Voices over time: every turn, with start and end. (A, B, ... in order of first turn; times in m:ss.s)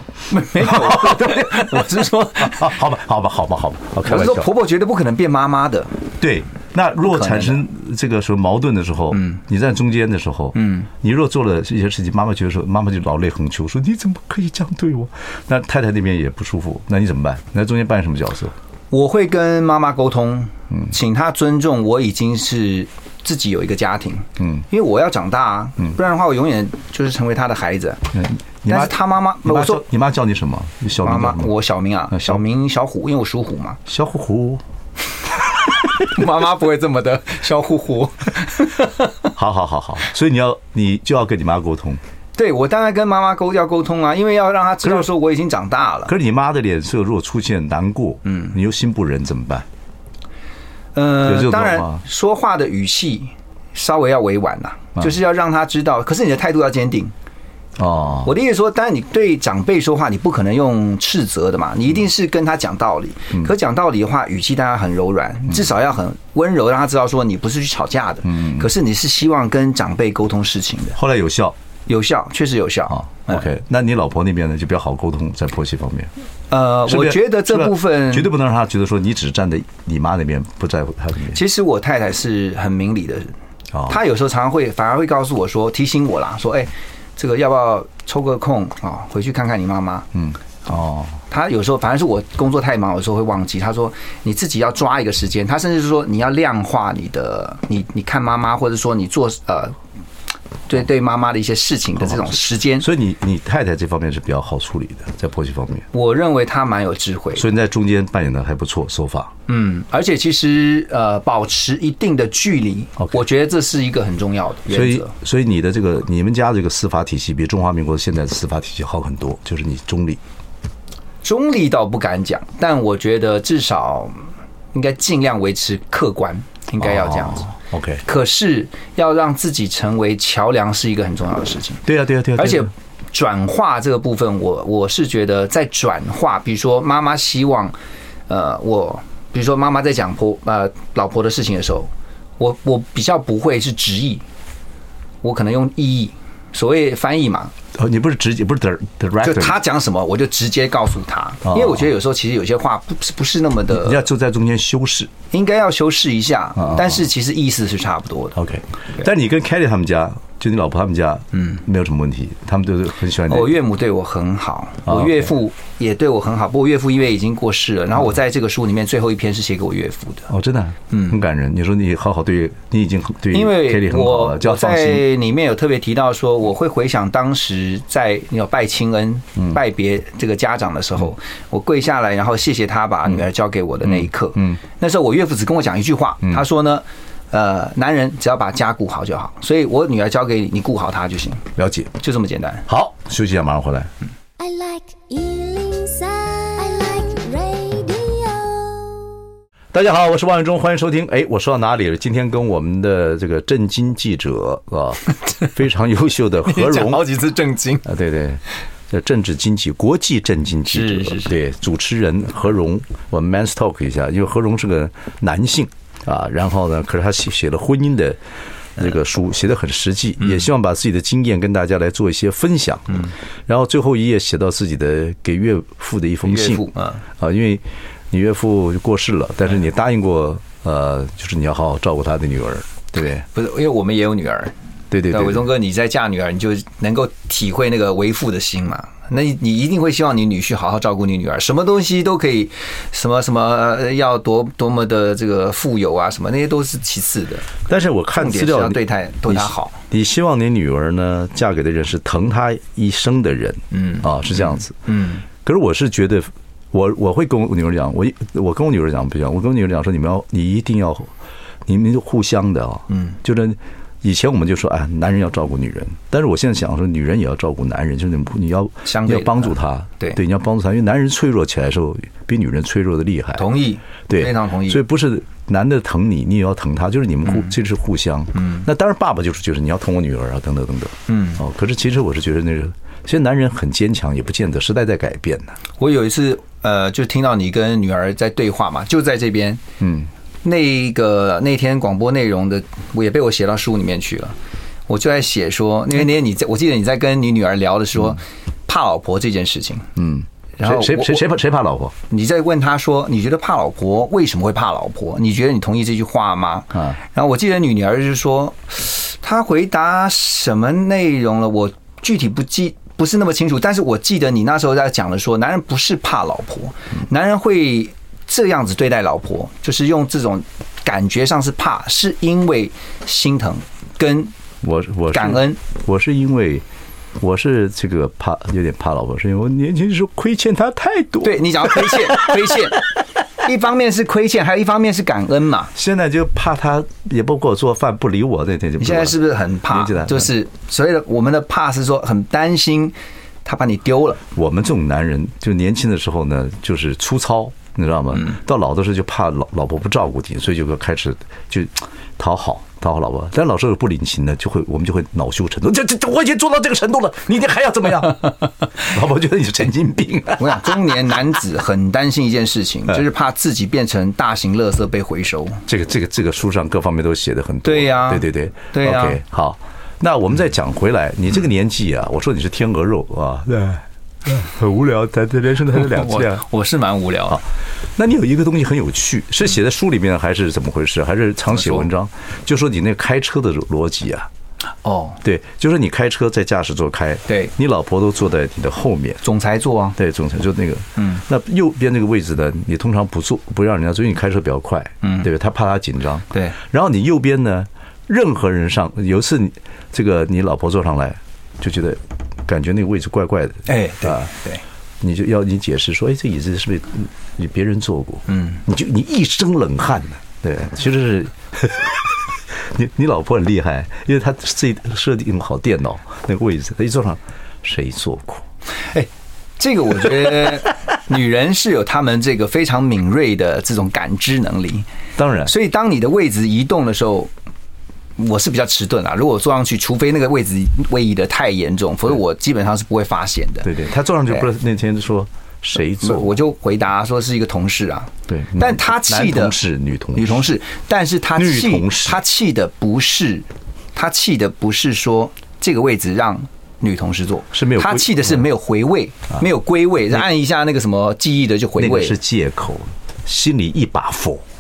0:00.3-0:02.8 A
0:00.5-0:04.5 B
0:04.0-0:05.9 A
0:06.2-0:18.5 B
0:07.0-0:07.6 A
0:09.1-0:09.4 A
0:10.6-0:10.9 A
0:18.9-0:28.1 A
0:28.1-0:31.5 B
0:28.7-0:29.8 A
0:31.0-0:33.8 A
0:32.1-0:32.4 B
0:33.9-0:34.6 B
0:35.9-0:39.1 A
0:39.4-0:42.0 B
0:42.4-0:46.1 A
0:46.1-0:49.7 B
0:48.3-0:48.5 A
0:51.0-0:57.1 A
0:51.2-0:52.0 B
0:57.8-0:58.3 B
0:58.2-1:11.0 A
1:08.3-1:08.7 B
1:11.0-1:11.6 B
1:11.9-1:13.5 A
1:13.1-1:16.1 B
1:16.5-1:18.3 A
1:16.9-1:21.4 B
1:21.3-1:23.3 A
1:23.9-1:30.1 A
1:30.1-1:31.2 B
1:31.3-1:39.8 A
1:40.7-1:42.9 A
1:42.0-1:45.9 B
1:45.9-1:47.5 A
1:47.4-1:49.3 B
1:49.5-1:55.1 A
1:54.7-2:00.2 B
2:01.2-2:07.5 A
2:06.8-2:08.0 B
2:08.0-2:11.8 A
2:11.9-2:12.7 B
2:12.4-2:17.8 A
2:18.3-2:24.2 A
2:25.2-2:27.5 A
2:27.8-2:29.6 B
2:29.2-2:34.0 A
2:31.5-2:31.8 B
2:33.7-2:35.1 B
2:35.3-2:38.4 A
2:36.6-2:37.0 B
2:38.4-2:43.5 B
2:41.3-2:41.6 A
2:43.3-2:50.3 A
2:44.9-2:45.3 B
2:50.3-2:55.0 B
2:50.9-2:51.2 A
2:53.3-3:11.4 A
3:03.8-3:04.6 B
3:11.6-3:11.9 B
3:12.0-3:12.7 A
3:12.7-3:13.9 B
3:14.4-3:19.1 C
3:19.7-3:27.1 B
3:26.4-3:27.9 A
3:27.8-3:38.2 B
3:30.7-3:31.4 A
3:38.8-3:53.2 B
3:40.2-3:40.5 A
3:46.2-3:47.0 A
3:53.3-3:54.5 A
3:54.9-3:55.4 B
3:55.1-4:07.5 A
4:07.7-4:14.8 B
4:08.2-4:09.8 A
4:13.7-4:15.2 A
4:15.4-4:21.1 B
4:21.7-4:33.4 B
4:22.9-4:23.2 A
4:28.8-4:30.2 A
4:33.4-4:34.8 A
4:34.1-4:45.6 B
4:38.4-4:38.6 A
4:41.1-4:41.4 A
4:45.8-4:49.6 A
4:49.8-4:50.1 B
4:50.4-4:54.4 A
4:54.9-4:59.9 A
5:00.0-5:02.0 B
5:00.6-5:01.3 A
5:02.1-5:24.3 A
5:24.6-5:26.6 B
5:25.1-5:25.6 A
5:27.2-5:32.6 B
5:31.2-5:35.7 A
5:35.8-5:40.3 B
5:38.8-5:44.2 A
5:44.3-6:01.1 B
6:00.4-6:05.6 A
6:05.7-6:16.4 B
6:07.6-6:09.2 A
6:15.8-6:17.4 A
6:18.0-6:24.3 B
6:21.5-6:21.9 A
6:24.8-6:25.2 A
6:25.2-6:29.2 B
6:27.3-6:27.5 A
6:29.2-6:30.0 A
6:30.0-6:44.3 B
6:31.0-6:31.2 A
6:35.0-6:35.3 A
6:43.7-6:44.6 A
6:45.0-6:58.5 B
6:48.3-6:48.6 A
6:58.8-7:04.9 A
7:05.2-7:05.5 B
7:05.4-7:07.3 A
7:08.2-7:13.7 A
7:13.6-7:16.4 B
7:16.0-7:19.6 A
7:18.3-7:20.5 B
7:20.2-7:32.2 A
7:21.4-7:22.2 B
7:27.5-7:28.4 B
7:31.8-7:34.4 B